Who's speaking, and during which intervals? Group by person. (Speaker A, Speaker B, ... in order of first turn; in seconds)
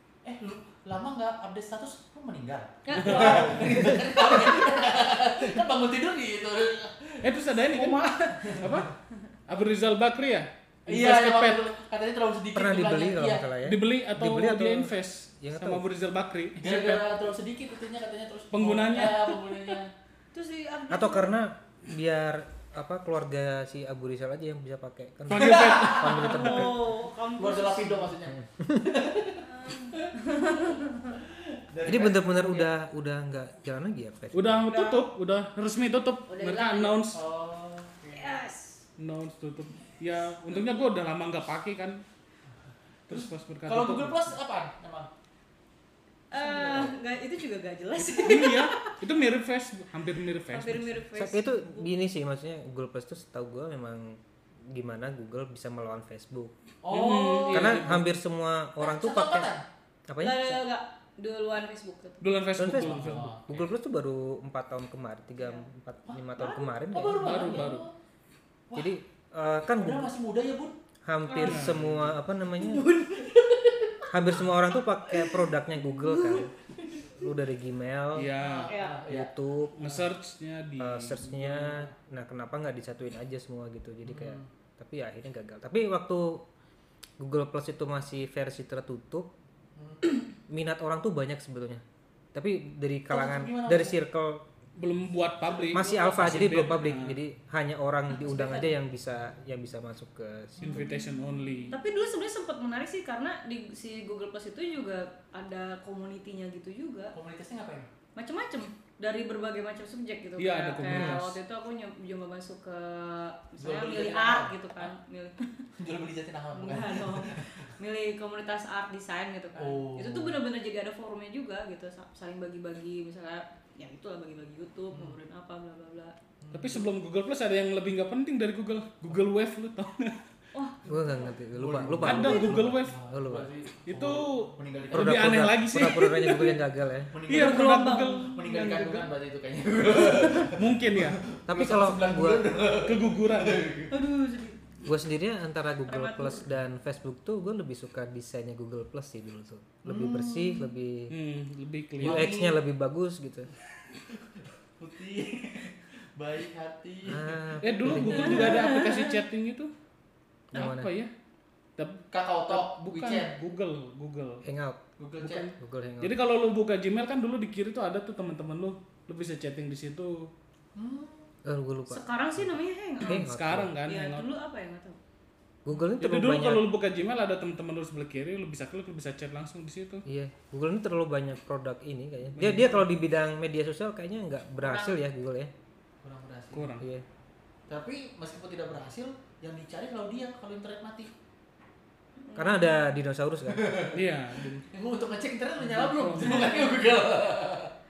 Speaker A: 0.2-8.9, 10.9-13.4, 16.6-19.9, 25.3-26.2, 27.4-32.7, 37.1-38.4, 43.1-45.1, 46.3-47.0, 56.8-58.1, 58.8-59.6, 62.6-63.6, 66.1-67.9, 68.7-68.9, 69.7-70.7, 78.4-79.3, 84.0-84.5, 89.8-90.1, 93.1-94.0, 95.6-96.8, 107.1-107.9, 113.6-114.9, 115.8-117.7, 119.5-120.4, 126.4-126.8, 131.5-135.5, 137.1-143.9, 149.8-150.7, 152.0-152.6, 154.8-158.1, 162.1-163.3, 165.0-165.5, 170.7-171.3, 186.0-186.6, 187.7-191.1, 193.5-194.0, 194.7-197.7
Speaker B: 2.8-3.9, 20.3-21.3, 26.2-28.1, 29.4-31.2, 34.6-35.0, 36.3-37.0, 38.1-38.8, 46.3-49.0, 50.5-51.9, 60.2-62.3, 65.4-65.7, 71.3-71.6, 72.6-73.5, 76.1-76.4, 78.7-79.0, 98.1-98.8, 100.7-101.1, 101.7-107.1, 108.2-115.7, 116.5-126.1, 130.5-131.3, 137.3-138.4, 143.9-144.6, 145.8-146.4, 158.1-159.2, 171.9-173.2, 173.9-175.0, 184.6-185.0, 192.2-192.9
Speaker C: 2.9-3.7, 7.2-8.9, 9.5-11.6, 13.6-17.0, 18.5-19.4, 25.3-26.7, 34.3-37.2, 39.0-42.0, 43.1-44.3, 48.1-51.0, 56.9-58.0, 62.2-63.5, 67.1-67.8, 71.4-72.1, 78.1-78.7, 79.8-81.9, 94.8-97.2, 100.6-101.8, 110.4-111.3, 126.5-130.2, 132.0-132.9, 133.9-136.6, 137.3-139.1, 140.5-141.2, 142.8-143.7, 151.1-152.4, 157.6-159.7, 160.5-161.1, 161.8-164.4, 165.2-170.3, 173.0-174.2, 176.0-180.0, 182.3-182.8, 186.5-186.8, 193.9-194.6, 195.6-196.7
Speaker D: 12.5-15.8, 20.9-26.9, 31.8-34.7, 51.1-56.5, 57.5-59.5, 60.1-60.6, 62.6-67.6, 68.7-70.1, 71.0-72.9, 74.1-76.5, 77.2-78.3, 79.1-79.7, 80.8-86.4, 87.2-89.3, 90.5-91.8, 92.3-94.4, 95.7-100.9, 110.8-111.2, 130.9-133.5, 134.9-137.1, 141.5-142.5, 144.8-151.1, 152.0-153.5, 157.1-158.6, 160.5-160.9, 164.4-164.8, 165.6-166.1, 171.4-173.7, 175.6-176.6, 180.1-185.5, 186.8-187.0, 192.3-193.9